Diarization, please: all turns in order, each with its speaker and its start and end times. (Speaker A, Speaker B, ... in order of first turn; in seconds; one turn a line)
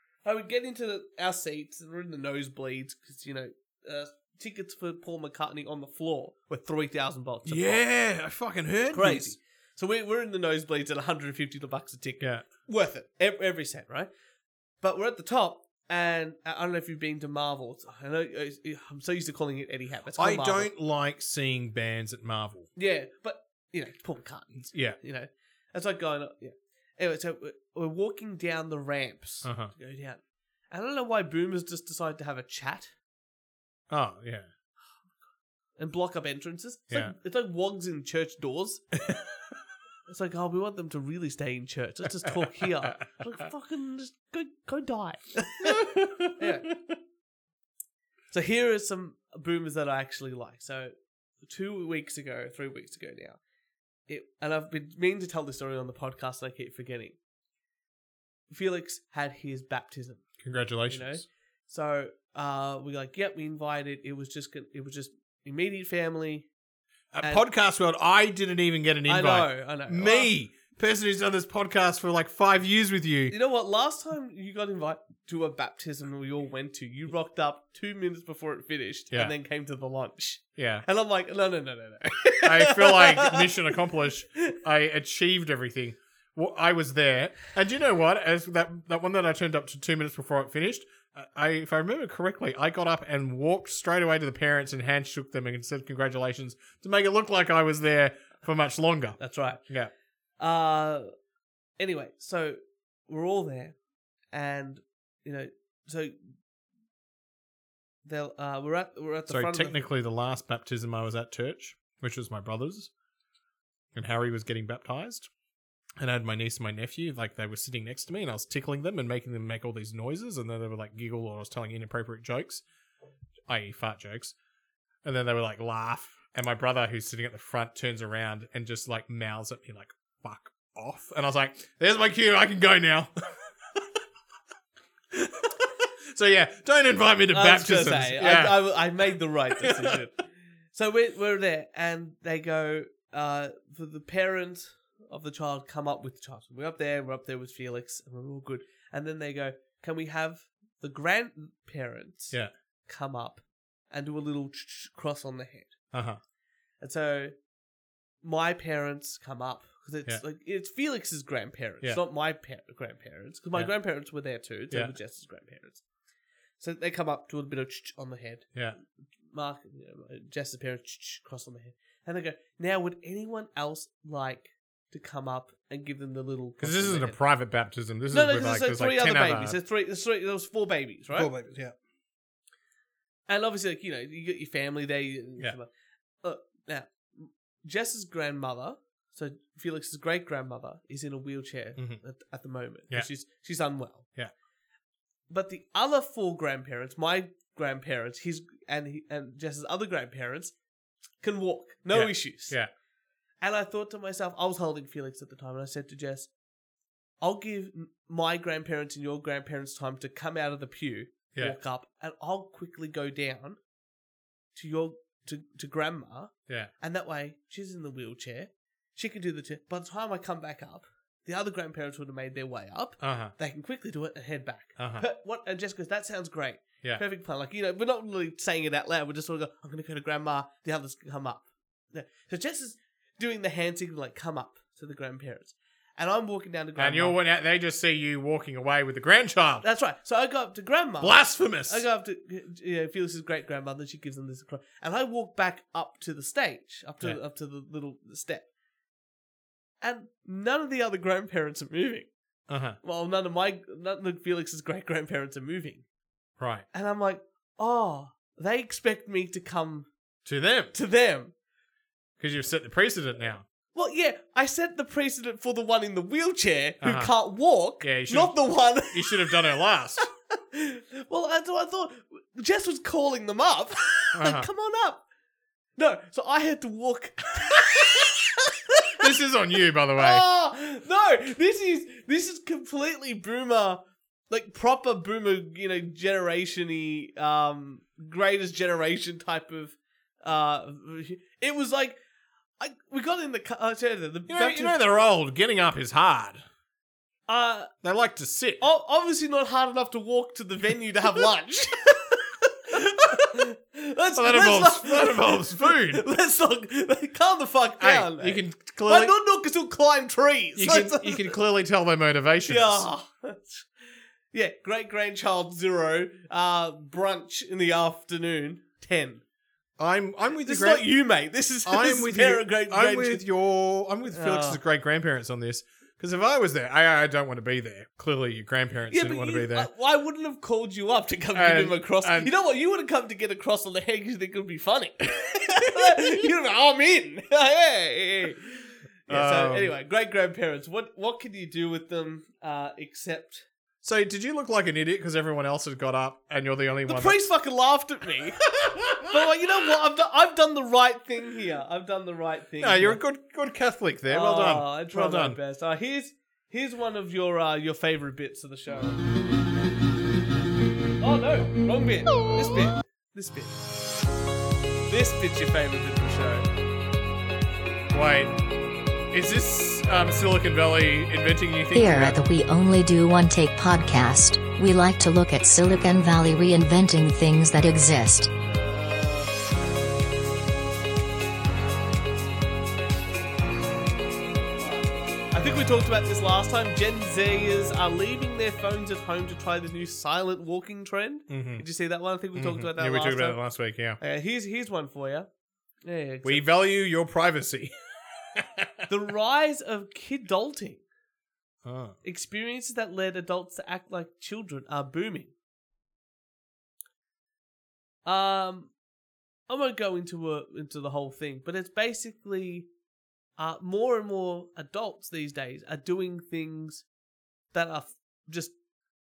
Speaker A: 0.2-7.8
Speaker B: 7.5-9.3
Speaker A: 8.9-14.1
Speaker B: 12.2-12.4
Speaker A: 14.8-20.7
Speaker B: 20.1-22.7
Speaker A: 22.8-30.2
Speaker B: 24.6-25.0
Speaker B: 29.4-29.7
Speaker A: 30.7-32.9
Speaker B: 33.9-34.5
Speaker A: 35.8-38.8
Speaker A: 40.1-46.7
Speaker B: 42.3-42.9
Speaker B: 45.6-46.5
Speaker A: 48.3-53.4
Speaker A: 54.1-57.1
Speaker A: 58.5-60.2
Speaker B: 60.4-61.2
Speaker A: 60.9-66.5
Speaker B: 67.1-73.3
Speaker A: 69.1-70.3
Speaker A: 73.3-83.5
Speaker B: 80.5-80.8
Speaker B: 82.4-99.9
Speaker A: 99.2-99.6
Speaker A: 100.4-101.1
Speaker A: 101.8-103.8
Speaker A: 104.3-106.2
Speaker A: 108.0-109.8
Speaker B: 109.3-112.9
Speaker B: 113.9-115.3
Speaker B: 116.0-122.6
Speaker B: 123.5-124.3
Speaker B: 125.0-133.1
Speaker B: 135.1-135.5
Speaker B: 136.1-138.6
Speaker A: 137.3-140.2
Speaker B: 139.6-139.9
Speaker A: 140.7-155.7
Speaker B: 155.9-156.2
Speaker A: 156.8-157.3
Speaker A: 158.2-165.8
Speaker A: 166.6-168.5
Speaker A: 169.3-177.2
Speaker B: 176.6-179.6
Speaker A: 178.1-181.3
Speaker B: 181.1-181.7
Speaker A: 183.3-185.7
Speaker A: 186.2-194.1
Speaker B: 191.8-192.0
Speaker A: 195.3-200.5
Speaker A: 201.2-202.6
Speaker B: 201.9-202.7
Speaker A: 203.4-206.3
Speaker A: 207.2-213.6
Speaker A: 214.5-237.2
Speaker B: 223.0-223.3
Speaker B: 224.8-225.1
Speaker B: 236.8-239.6
Speaker A: 239.6-248.4
Speaker B: 241.0-241.8
Speaker A: 249.8-252.1
Speaker B: 252.5-252.8
Speaker A: 252.8-255.8
Speaker B: 256.4-256.6
Speaker A: 256.7-259.9
Speaker B: 260.2-260.7
Speaker A: 260.7-261.3
Speaker B: 262.2-263.4
Speaker A: 263.7-269.4
Speaker B: 266.8-267.1
Speaker B: 267.8-268.4
Speaker B: 268.9-270.1
Speaker A: 270.5-275.0
Speaker B: 274.1-274.5
Speaker A: 275.8-278.8
Speaker B: 279.0-280.2
Speaker A: 280.0-292.0
Speaker A: 292.6-294.8
Speaker B: 294.3-296.4
Speaker A: 297.3-297.7
Speaker B: 297.8-298.6
Speaker A: 298.6-302.2
Speaker A: 302.7-311.4
Speaker B: 304.1-306.0
Speaker B: 307.8-309.1
Speaker B: 310.6-312.9
Speaker A: 312.5-313.7
Speaker A: 314.3-319.2
Speaker B: 319.8-320.9
Speaker A: 320.4-323.2
Speaker B: 321.6-329.7
Speaker A: 324.1-324.6
Speaker A: 328.9-338.5
Speaker B: 331.3-332.3
Speaker A: 339.1-343.4
Speaker B: 339.1-339.7
Speaker B: 343.8-347.3
Speaker A: 346.9-353.0
Speaker B: 352.6-355.4
Speaker A: 354.1-359.0
Speaker A: 361.0-363.6
Speaker A: 364.9-366.4
Speaker B: 367.9-368.4
Speaker B: 369.1-372.2
Speaker C: 371.7-378.3
Speaker A: 378.4-379.3
Speaker A: 384.6-393.4
Speaker B: 391.3-391.6
Speaker B: 392.3-394.0
Speaker A: 394.0-395.3
Speaker A: 395.8-396.5
Speaker B: 396.2-397.7
Speaker B: 398.3-398.7
Speaker A: 398.9-400.8
Speaker B: 401.6-402.0
Speaker A: 402.0-405.3
Speaker A: 408.0-408.7
Speaker A: 409.5-412.7
Speaker A: 413.4-416.8
Speaker A: 417.5-418.5